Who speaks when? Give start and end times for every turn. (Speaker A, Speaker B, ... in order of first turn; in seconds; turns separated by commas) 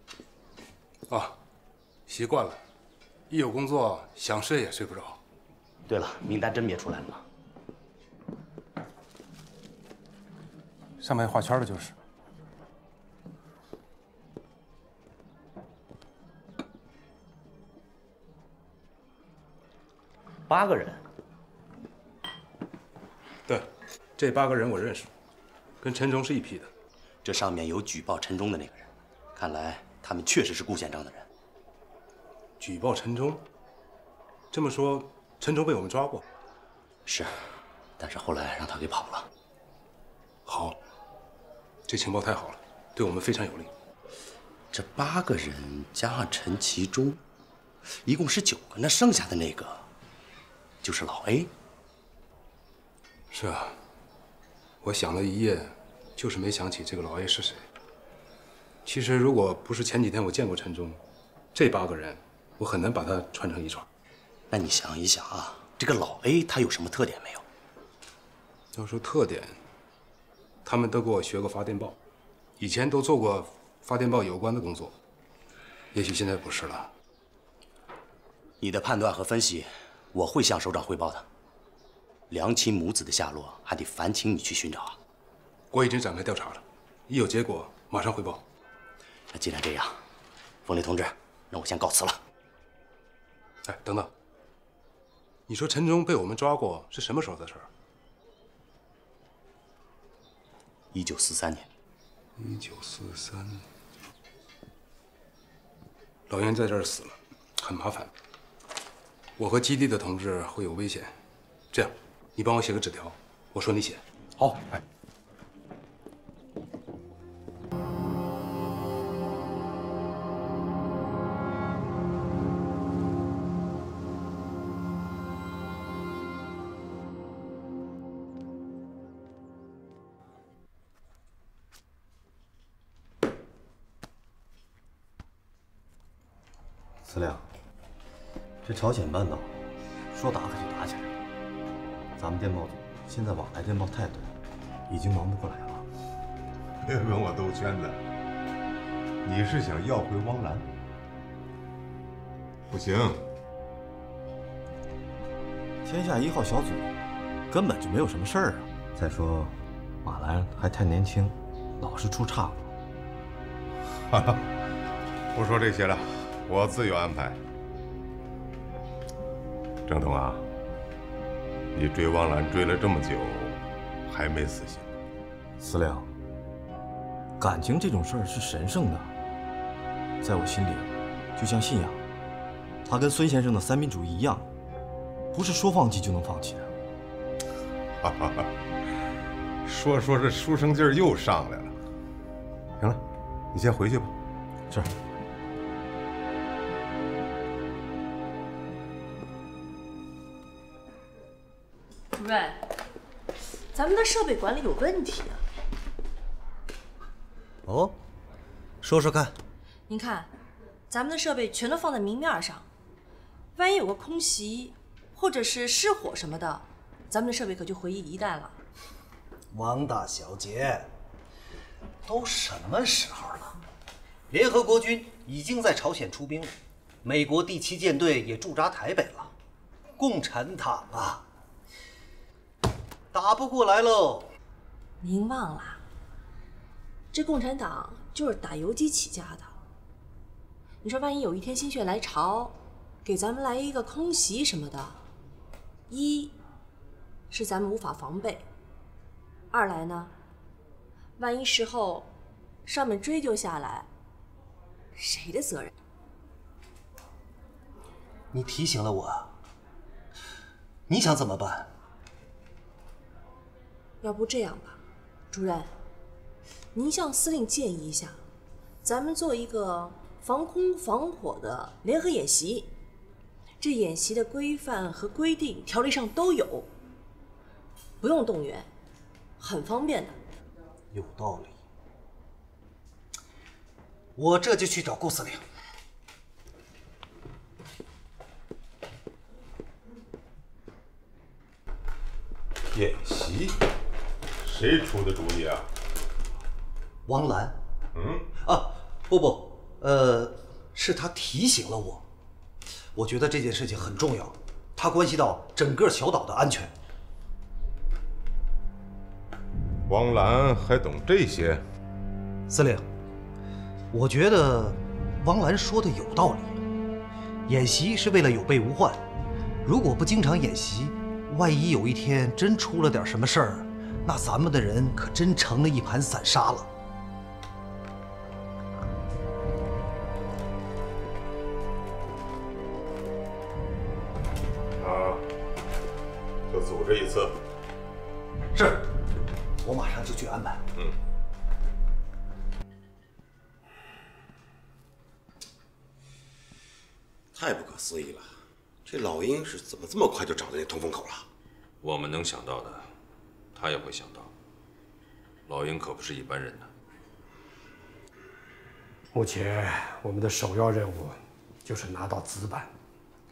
Speaker A: 1.1-1.4, Speaker A: 2.1-2.6, Speaker A: 3.3-5.2, Speaker B: 5.9-7.2, Speaker A: 11.0-11.9, Speaker B: 20.5-21.0, Speaker A: 23.5-25.1, Speaker A: 25.8-26.7, Speaker B: 27.2-31.3, Speaker A: 32.6-33.4, Speaker A: 34.5-36.2, Speaker B: 37.0-37.4, Speaker B: 38.0-39.3, Speaker A: 40.5-40.8, Speaker A: 41.9-43.7, Speaker B: 44.7-47.2, Speaker B: 48.0-49.9, Speaker B: 50.8-51.5, Speaker A: 53.3-53.8, Speaker A: 54.8-57.6, Speaker A: 58.8-61.0, Speaker A: 61.5-63.9, Speaker B: 64.5-67.4, Speaker A: 68.7-69.6, Speaker A: 70.6-72.0, Speaker A: 72.6-75.0, Speaker A: 75.9-76.9, Speaker B: 78.6-81.2, Speaker B: 82.3-85.0, Speaker A: 85.7-88.4, Speaker B: 89.3-90.0, Speaker B: 90.6-92.2, Speaker A: 93.6-94.1, Speaker A: 95.5-97.7, Speaker B: 100.9-101.7, Speaker A: 102.4-103.6, Speaker A: 106.3-108.1, Speaker A: 109.4-111.1, Speaker A: 111.7-114.8, Speaker C: 137.0-137.4, Speaker C: 138.6-141.1, Speaker C: 142.2-144.3, Speaker C: 144.9-145.8, Speaker D: 146.8-148.0, Speaker D: 149.2-150.7, Speaker D: 152.7-153.2, Speaker C: 155.8-156.9, Speaker C: 157.5-162.7, Speaker D: 164.1-164.4, Speaker D: 165.3-167.4, Speaker D: 169.8-170.4, Speaker D: 171.7-174.9, Speaker C: 175.6-176.1, Speaker C: 177.4-179.1, Speaker C: 180.2-182.0, Speaker C: 182.8-184.5, Speaker C: 185.3-186.7, Speaker D: 188.0-188.6, Speaker D: 189.6-191.8, Speaker D: 193.5-194.1, Speaker C: 194.7-194.9, Speaker E: 202.1-202.6, Speaker E: 203.7-205.4, Speaker F: 207.7-207.9, Speaker F: 208.8-209.3, Speaker E: 209.9-210.3, Speaker E: 210.9-212.7, Speaker E: 213.5-218.6, Speaker F: 219.5-220.9, Speaker F: 222.1-223.6, Speaker F: 224.3-229.3, Speaker F: 230.0-231.2, Speaker F: 233.1-234.3, Speaker E: 235.0-235.8, Speaker E: 237.1-239.6, Speaker E: 240.8-245.0, Speaker E: 245.9-246.3, Speaker E: 247.3-248.5, Speaker E: 249.5-250.1, Speaker E: 251.2-252.1, Speaker E: 252.7-253.9, Speaker E: 254.9-255.7, Speaker F: 258.3-259.3, Speaker F: 260.9-261.7, Speaker E: 264.0-264.8, Speaker E: 265.3-265.7, Speaker E: 266.7-268.2, Speaker E: 268.8-272.7, Speaker E: 273.6-276.7, Speaker E: 278.0-278.7, Speaker E: 279.4-280.2, Speaker F: 280.9-281.5, Speaker F: 284.1-285.4, Speaker D: 292.7-293.6, Speaker D: 294.4-295.7, Speaker F: 297.1-297.6, Speaker D: 297.9-298.3, Speaker F: 298.4-302.0, Speaker F: 302.9-306.7, Speaker D: 309.9-311.6, Speaker F: 312.5-312.9, Speaker F: 313.9-316.6, Speaker F: 317.5-319.0, Speaker F: 319.6-326.7, Speaker D: 334.8-335.2, Speaker D: 336.5-337.4, Speaker F: 338.5-338.9, Speaker F: 339.6-340.6, Speaker G: 347.3-351.2, Speaker H: 351.8-352.9, Speaker H: 353.5-354.3, Speaker H: 355.5-356.7, Speaker I: 359.1-362.7